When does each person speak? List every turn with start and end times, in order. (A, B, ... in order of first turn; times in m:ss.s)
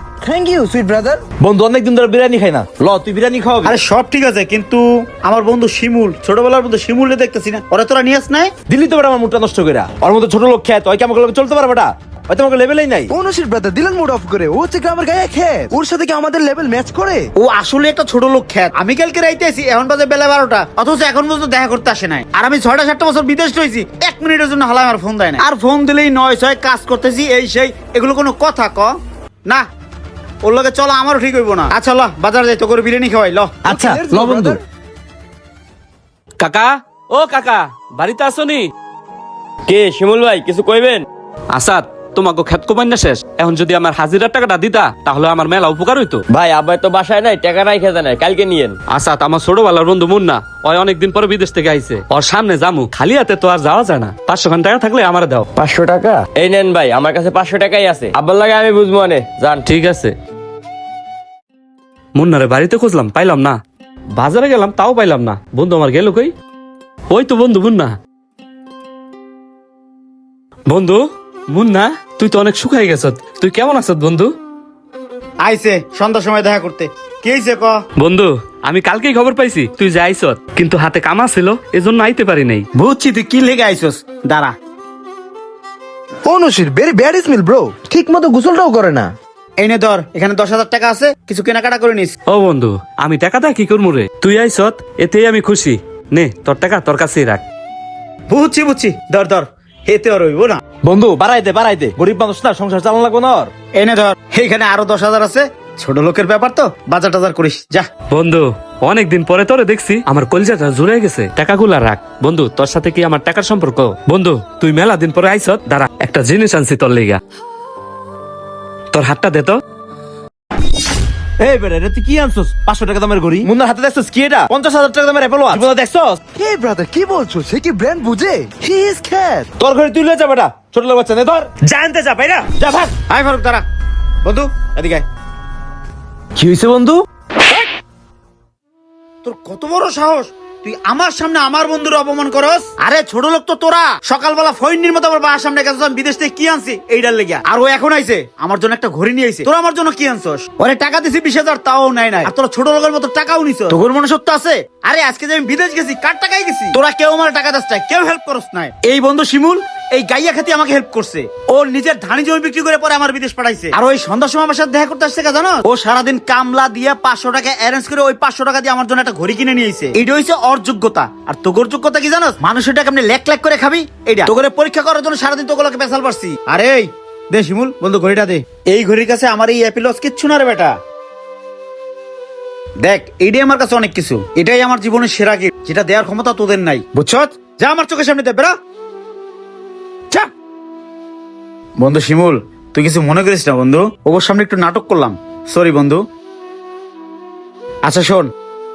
0:00.2-0:01.2 A
0:01.4-0:03.8 B
0:03.6-0:08.5 C
0:08.7-0:13.1 B
0:13.1-0:17.3 A
0:17.4-0:28.9 C
0:30.4-0:33.6 C
0:33.7-0:34.6 A
0:33.9-0:34.6 B
0:36.4-0:38.7 D
0:39.7-0:41.0 E
0:41.5-0:46.2 D
0:46.3-0:48.7 E
0:48.9-0:55.5 D
0:55.6-0:59.6 E
0:59.7-1:00.1 D
1:02.2-1:03.6 D
1:04.2-1:06.3 D
1:07.1-1:08.0 D
1:10.7-1:14.3 D
1:15.4-1:17.8 C
1:18.0-1:22.7 D
1:22.8-1:24.5 C
1:26.3-1:29.1 A
1:29.6-1:32.1 C
1:32.3-1:37.4 D
1:38.3-1:40.6 C
1:40.8-1:43.5 B
1:43.8-1:47.9 C
1:48.1-1:57.2 D
1:58.9-1:59.6 D
2:01.4-2:06.2 B
2:06.4-2:09.5 A
2:09.6-2:11.5 B
2:11.6-2:12.5 C
2:12.5-2:12.9 B
2:13.1-2:13.6 C
2:14.2-2:15.0 C
2:16.4-2:17.0 B
2:19.2-3:00.8 C
3:02.8-3:08.5 C
3:11.8-3:16.0 C
3:17.8-3:18.3 C